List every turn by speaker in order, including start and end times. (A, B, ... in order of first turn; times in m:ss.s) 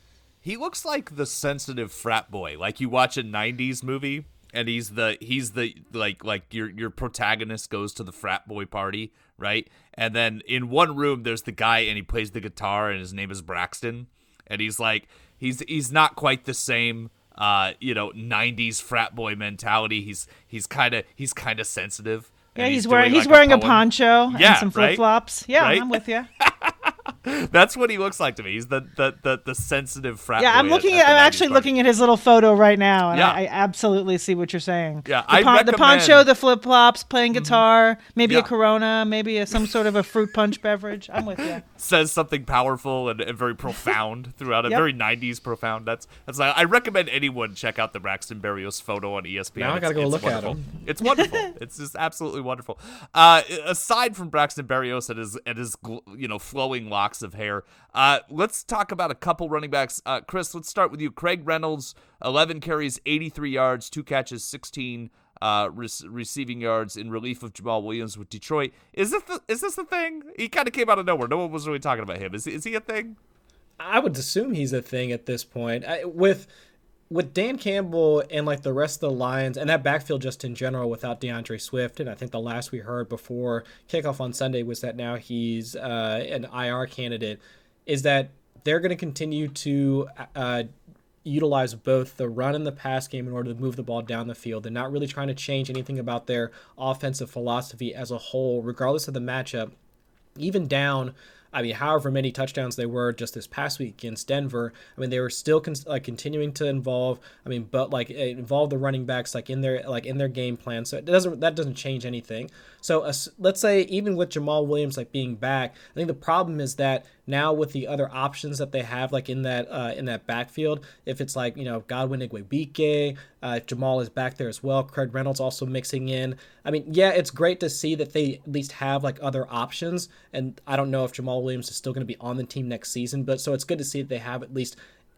0:00.4-0:25.0 A
0:22.6-0:26.3 B
0:25.6-0:31.7 A
0:30.4-0:41.6 B
0:33.1-0:33.4 A
0:35.0-0:36.3 A
0:37.3-0:37.6 A
0:41.6-1:13.2 A
0:49.6-0:50.6 C
1:13.8-1:16.5 C
1:17.1-1:30.7 C
1:31.2-1:39.7 C
1:40.4-2:14.8 C